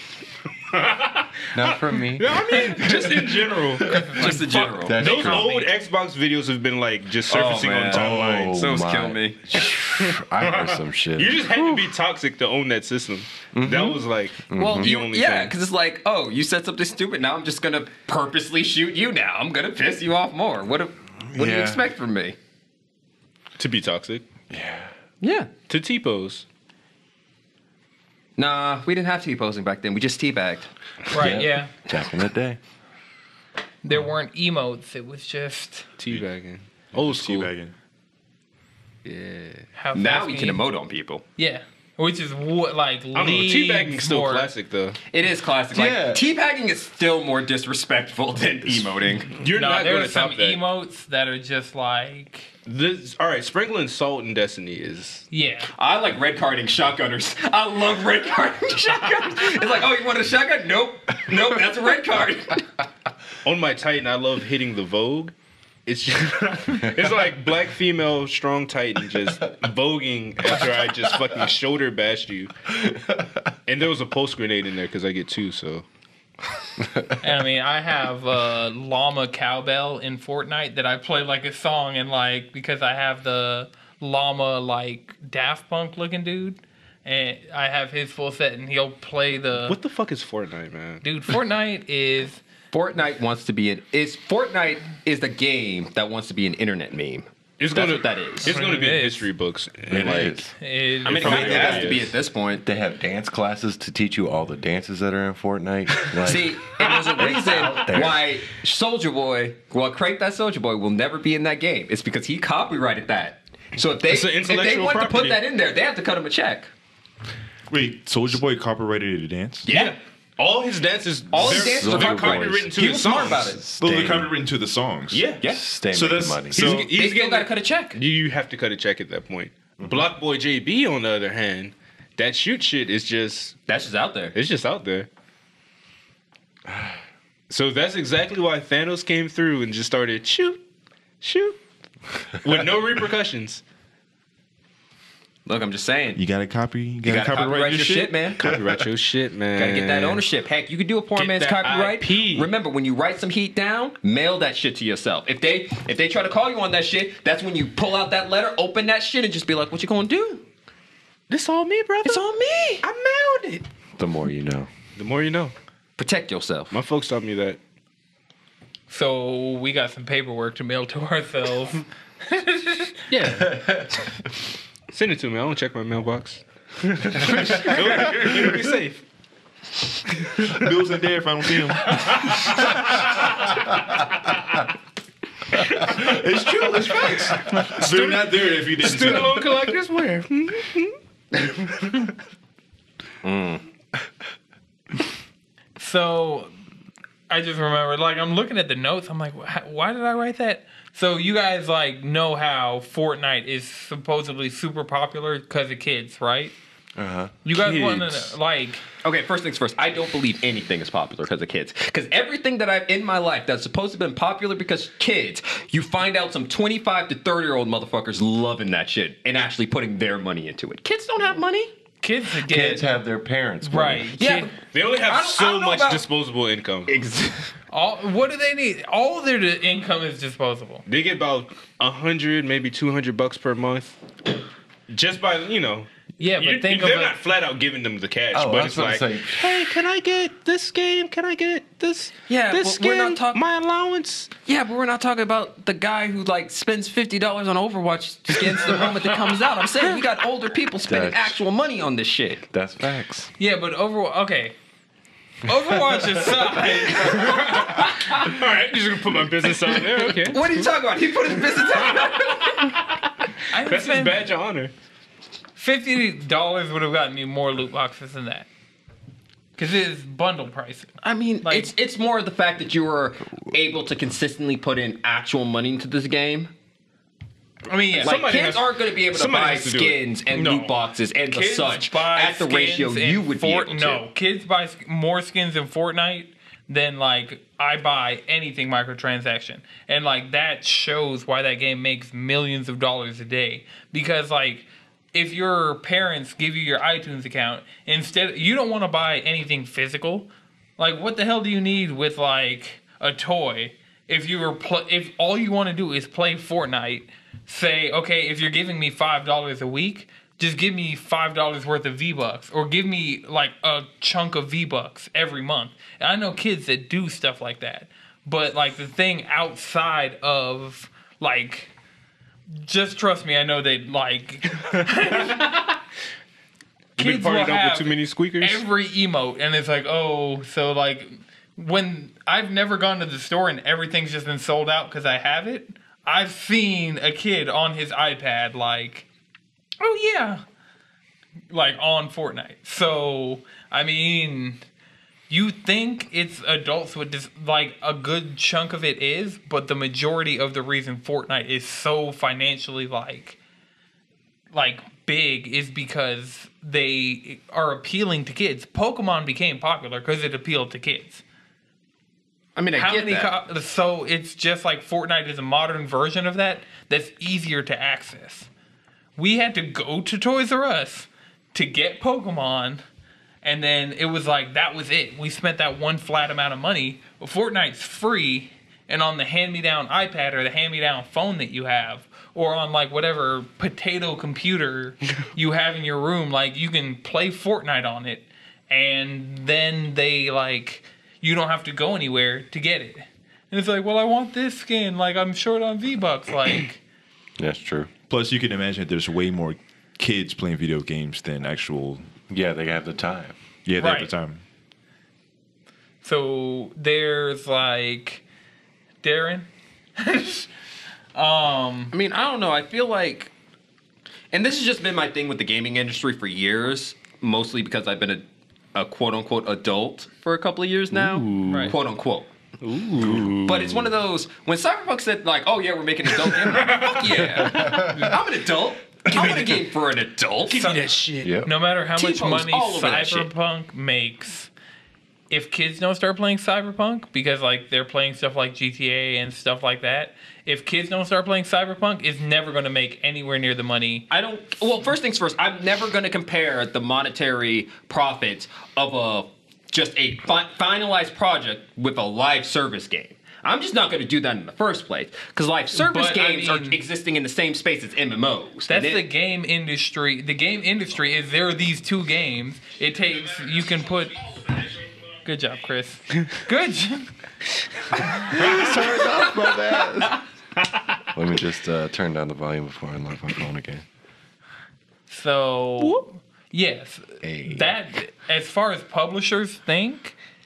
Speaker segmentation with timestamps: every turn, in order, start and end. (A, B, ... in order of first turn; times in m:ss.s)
0:00.7-0:08.6 A
0:01.5-0:05.5 B
0:04.0-0:05.7 C
0:04.1-0:05.4 D
0:07.3-0:09.4 D
0:07.9-0:11.4 B
0:10.0-0:15.5 A
0:11.5-0:11.9 D
0:13.5-0:14.9 B
0:14.5-0:22.4 D
0:21.3-0:21.8 B
0:23.6-0:24.2 A
0:24.5-0:24.9 B
0:25.2-0:25.5 D
0:25.7-0:26.4 A
0:28.4-0:30.7 D
0:31.1-0:31.7 C
0:31.1-0:32.6 B
0:33.8-0:35.9 C
0:36.0-0:37.5 A
0:37.0-0:37.7 E
0:39.0-0:39.7 A
0:39.8-0:40.6 C
0:40.0-0:41.2 D
0:41.4-0:44.5 C
0:43.1-0:45.0 A
0:45.1-0:49.3 D
0:45.7-0:46.2 B
0:49.3-0:50.6 A
0:49.5-0:52.5 C
0:52.7-0:55.2 A
0:55.3-0:55.7 C
0:55.8-1:02.6 D
1:03.4-1:05.3 A
1:05.9-1:12.5 A
1:13.7-1:15.9 A
1:17.2-1:29.8 C
1:29.6-1:31.0 A
1:31.0-1:32.4 C
1:32.7-1:38.6 D
1:37.6-1:40.4 A
1:38.4-1:39.3 C
1:39.9-1:40.5 B
1:40.5-1:41.9 C
1:41.0-1:42.1 A
1:41.1-1:42.6 D
1:41.2-1:42.0 B
1:42.6-1:48.2 B
1:46.2-1:56.7 D
1:47.6-1:48.0 A
1:54.1-1:55.4 A
1:57.7-1:59.7 E
1:59.7-2:00.0 D
1:59.7-2:03.6 A
2:01.3-2:03.6 D
2:01.4-2:02.8 B
2:03.3-2:04.3 B
2:03.8-2:05.3 E
2:05.1-2:05.4 A
2:05.4-2:05.6 D
2:05.4-2:06.8 B
2:05.9-2:06.9 E
2:06.5-2:13.6 A
2:06.8-2:08.0 D
2:13.7-2:14.4 D
2:14.4-2:15.1 A
2:16.7-2:17.0 B
2:17.5-2:20.6 A
2:21.2-2:21.6 A
2:22.3-2:23.6 A
2:25.5-2:26.2 D
2:26.2-2:28.4 E
2:27.0-2:28.4 D
2:28.4-2:30.2 A
2:29.6-2:40.4 D
2:31.2-2:32.5 A
2:41.3-2:42.2 A
2:42.0-2:42.8 D
2:42.8-2:43.6 A
2:44.0-2:44.7 B
2:45.0-2:45.5 A
2:46.0-2:46.8 D
2:46.7-2:47.6 A
2:48.9-2:53.0 C
2:53.1-2:53.6 A
2:53.4-2:53.9 B
2:54.9-2:59.0 A
2:58.0-2:58.4 E
3:00.2-3:00.5 A
3:00.5-3:03.0 E
3:05.7-3:09.6 E
3:06.6-3:11.0 A
3:11.5-3:12.1 A
3:13.2-3:13.6 D
3:15.8-3:16.5 C
3:17.3-3:26.5 C
3:27.0-3:27.3 B
3:27.4-3:28.8 C
3:27.5-3:28.4 A
3:29.0-3:41.7 D
3:42.0-3:43.0 C
3:42.4-3:44.1 B
3:43.6-3:44.5 C
3:44.2-3:46.0 D
3:44.7-3:46.9 A
3:46.9-3:47.5 D
3:47.7-3:50.8 C
3:50.9-3:54.0 A
3:54.9-4:04.3 A
3:56.2-3:57.2 C
3:58.3-3:59.5 B
4:02.3-4:03.4 D
4:04.4-4:12.4 D
4:08.5-4:08.9 A
4:10.8-4:11.4 B
4:12.5-4:13.3 B
4:13.4-4:14.6 C
4:15.4-4:17.7 C
4:17.0-4:20.7 A
4:17.5-4:18.1 D
4:19.7-4:22.8 D
4:21.4-4:22.9 A
4:23.5-4:24.3 C
4:23.6-4:24.7 A
4:25.6-4:28.5 C
4:29.6-4:30.9 C
4:31.0-4:36.5 D
4:31.4-4:31.7 C
4:37.7-4:38.2 C
4:37.9-4:44.0 D
4:38.0-4:40.0 A
4:40.3-4:40.8 C
4:41.3-5:21.7 C
5:22.6-5:25.8 C
5:27.0-5:28.6 A
5:27.0-5:39.1 C
5:39.8-5:40.4 C
5:41.5-5:44.6 C
5:45.3-5:53.4 C
5:54.5-6:01.2 C
6:02.6-6:03.3 D
6:02.8-6:08.5 C
6:09.2-6:12.8 C
6:13.4-6:36.8 C
6:37.4-6:37.9 B
6:38.1-6:42.1 E
6:42.3-6:43.4 B
6:43.6-6:44.4 E
6:43.8-6:44.1 C
6:46.0-6:48.2 C
6:49.0-6:49.5 C
6:50.0-6:50.5 C
6:51.2-6:51.9 C
6:51.9-6:53.3 D
6:54.3-6:58.2 D
6:58.8-7:02.3 D
7:00.9-7:01.7 A
7:01.5-7:01.8 C
7:02.6-7:03.9 A
7:03.4-7:10.8 D
7:06.4-7:08.1 A
7:07.5-7:08.1 B
7:09.1-7:09.5 A
7:10.5-7:11.3 A
7:10.6-7:10.8 C
7:11.2-7:11.5 B
7:11.4-7:14.5 C
7:12.0-7:13.3 D
7:15.3-7:24.0 C
7:24.1-7:39.0 D
7:35.7-7:36.8 C
7:38.7-7:44.6 C
7:45.2-7:47.1 C
7:48.3-7:50.2 B
7:48.4-7:48.7 A
7:51.1-7:53.8 B
7:55.1-8:00.2 C
7:55.8-7:56.0 A
7:57.2-7:57.7 B